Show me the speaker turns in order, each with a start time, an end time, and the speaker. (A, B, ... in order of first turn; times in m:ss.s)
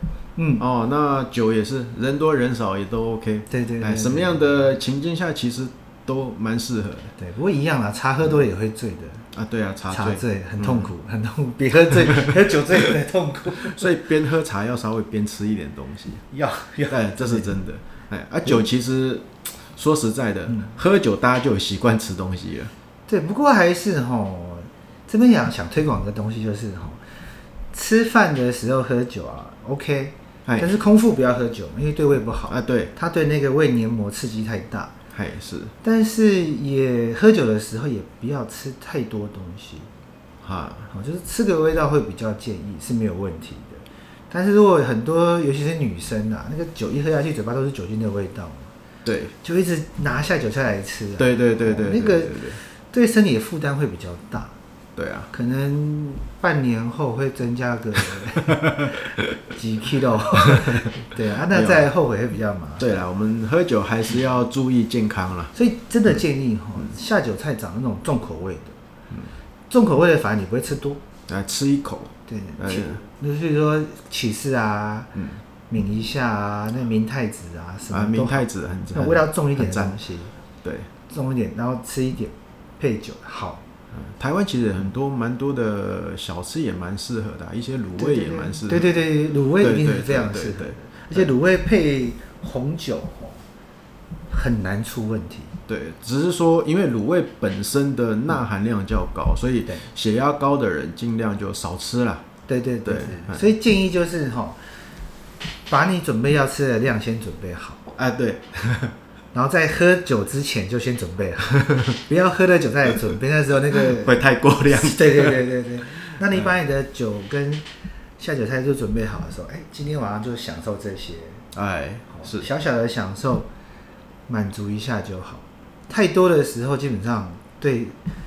0:00.4-0:00.6 A
0:00.6-0:07.1 B
0:03.5-0:04.6 A
0:07.2-0:09.3 A
0:09.3-0:10.9 B
0:09.9-0:13.9 A
0:13.7-0:16.2 B
0:16.3-0:17.5 A
0:16.9-0:22.7 B
0:23.1-0:27.0 A
0:27.7-0:34.9 A
0:32.5-0:32.9 B
0:35.1-0:35.7 B
0:35.8-0:39.9 A
0:40.4-0:40.9 B
0:40.9-0:48.7 A
0:49.0-0:49.4 B
0:49.4-0:54.5 A
0:51.2-0:52.6 B
0:55.0-0:55.3 B
0:55.3-1:02.9 A
1:01.5-1:01.9 B
1:02.8-1:05.5 B
1:05.6-1:08.8 A
1:09.7-1:11.0 A
1:11.3-1:13.0 B
1:12.3-1:15.1 A
1:15.2-1:15.4 B
1:15.7-1:20.3 A
1:17.9-1:20.0 B
1:20.6-1:20.9 B
1:21.1-1:23.6 A
1:23.9-1:29.0 B
1:28.0-1:33.4 A
1:29.6-1:31.3 B
1:34.3-1:35.6 A
1:35.7-1:42.3 B
1:42.5-1:44.8 A
1:42.8-1:43.5 B
1:45.7-1:47.9 A
1:48.0-1:49.0 B
1:49.3-1:54.2 A
1:53.8-1:56.5 B
1:54.7-1:57.7 A
1:58.2-2:01.4 A
2:01.5-2:02.5 B
2:02.1-2:03.5 A
2:04.3-2:08.0 A